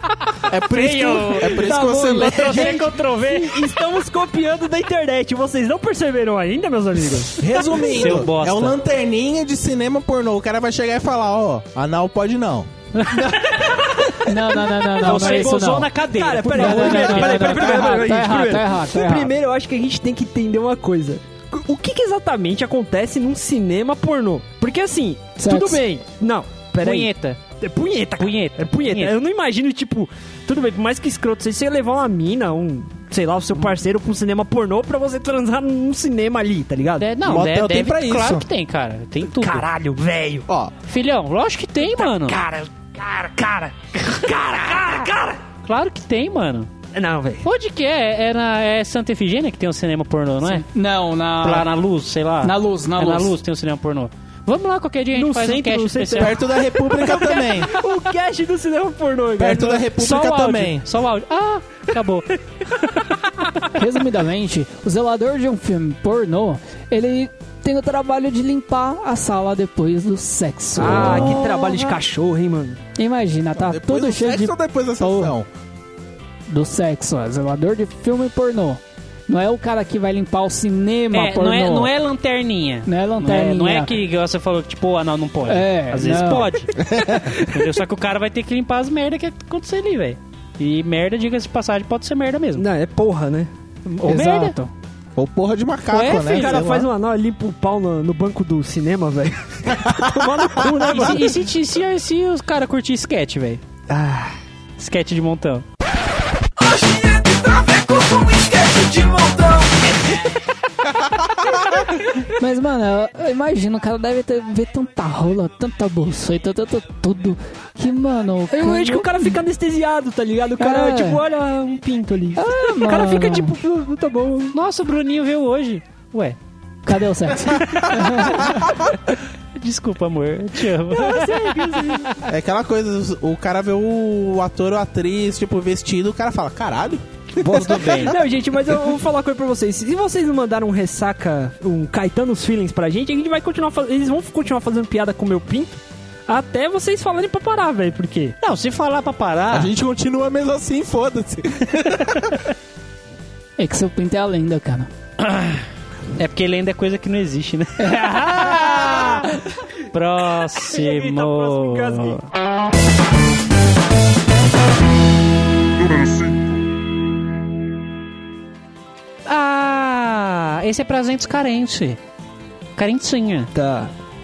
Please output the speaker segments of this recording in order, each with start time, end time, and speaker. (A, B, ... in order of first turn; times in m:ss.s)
0:00.5-0:02.8 A
0:00.7-0:03.7 B
0:01.4-0:07.5 C
0:07.4-0:12.7 A
0:07.7-0:08.8 B
0:13.0-0:13.4 B
0:13.3-0:14.3 C
0:14.2-0:15.9 D
0:15.0-0:15.6 C
0:15.0-0:18.0 B
0:16.1-0:37.1 C
0:16.5-0:19.3 D
0:25.4-0:25.8 D
0:26.8-0:27.4 B
0:28.2-0:29.1 B
0:37.0-0:39.6 B
0:37.2-0:38.4 A
0:39.2-0:40.5 C
0:40.5-0:40.7 A
0:40.8-0:42.4 B
0:41.8-0:45.4 C
0:44.0-0:45.1 B
0:45.6-0:46.7 B
0:46.9-0:47.4 C
0:47.4-0:50.7 B
0:50.4-0:51.7 D
0:51.4-0:56.4 B
0:52.4-0:53.3 D
0:55.1-0:59.9 C
0:56.2-0:57.7 A
0:59.4-1:00.8 A
1:00.0-1:03.1 B
1:03.7-1:12.0 D
1:10.8-1:12.8 C
1:13.0-1:15.3 D
1:13.6-1:15.5 A
1:16.5-1:21.9 D
1:21.1-1:32.6 B
1:22.8-1:23.9 D
1:25.4-1:26.6 D
1:26.8-1:27.3 A
1:32.6-1:33.5 C
1:33.8-1:34.6 B
1:34.0-1:34.7 D
1:35.2-1:36.9 A
1:35.9-1:36.7 B
1:36.3-1:41.3 C
1:40.8-1:43.6 B
1:43.9-1:44.3 C
1:44.8-1:45.6 B
1:47.5-1:49.7 C
1:52.3-1:59.3 D
1:58.5-2:04.6 C
2:00.6-2:01.2 D
2:02.4-2:03.6 D
2:04.5-2:06.4 B
2:06.8-2:08.6 D
2:07.6-2:08.4 B
2:09.6-2:11.8 B
2:10.9-2:12.2 C
2:12.3-2:18.1 A
2:17.4-2:28.3 C
2:17.4-2:18.2 B
2:28.4-2:29.7 B
2:29.5-2:32.4 A
2:33.6-2:34.9 D
2:35.2-2:35.6 B
2:36.2-2:42.2 B
2:37.8-2:39.1 D
2:40.5-2:42.2 C
2:49.2-2:52.0 B
2:52.8-2:53.5 B
2:53.5-2:53.9 C